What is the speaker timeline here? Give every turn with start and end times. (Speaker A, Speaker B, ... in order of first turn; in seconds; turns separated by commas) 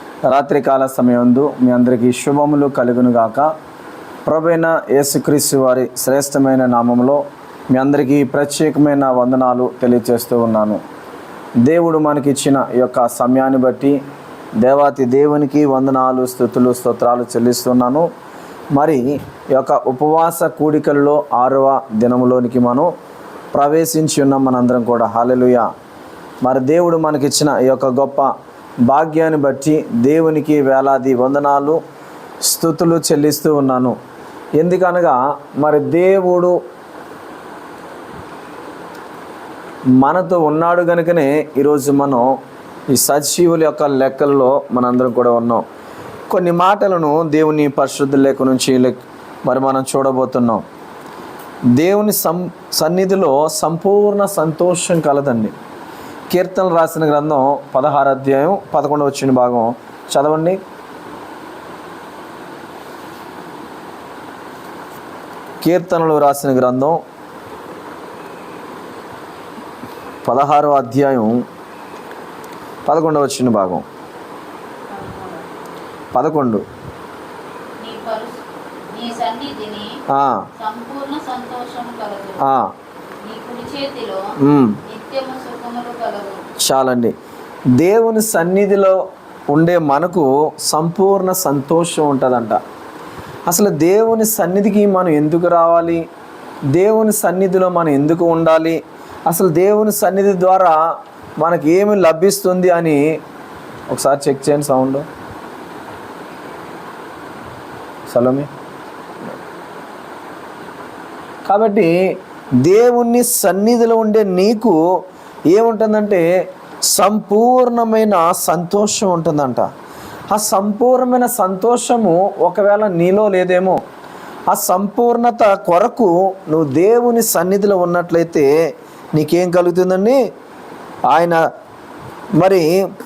Speaker A: 0.2-3.5, Speaker A: 4.2-10.8, Speaker A: 11.6-14.0, Speaker A: 14.6-18.1, Speaker A: 18.7-22.9, Speaker A: 23.5-25.7, Speaker A: 26.4-28.3, Speaker A: 28.9-31.8, Speaker A: 32.4-34.0, Speaker A: 34.6-36.5, Speaker A: 40.0-42.3, Speaker A: 42.9-45.6, Speaker A: 46.3-50.6, Speaker A: 51.8-55.5, Speaker A: 56.3-60.6, Speaker A: 65.6-67.0, Speaker A: 70.2-71.4, Speaker A: 72.8-73.8, Speaker B: 74.9-75.5, Speaker A: 76.1-76.6, Speaker B: 77.8-78.4, Speaker B: 78.9-79.9, Speaker A: 80.1-80.5, Speaker B: 80.6-82.4, Speaker A: 82.4-82.7, Speaker B: 83.2-84.2, Speaker A: 84.4-84.8, Speaker B: 84.8-86.4, Speaker A: 86.6-87.1, Speaker A: 87.8-89.0, Speaker A: 89.5-92.6, Speaker A: 93.5-96.0, Speaker A: 96.7-100.8, Speaker A: 101.4-103.0, Speaker A: 103.9-105.0, Speaker A: 108.1-108.5, Speaker A: 111.5-111.9, Speaker A: 112.6-114.8, Speaker A: 115.5-116.2, Speaker A: 116.9-119.7, Speaker A: 120.3-123.8, Speaker A: 124.5-128.5, Speaker A: 129.2-130.2, Speaker A: 131.1-131.4, Speaker A: 132.4-132.7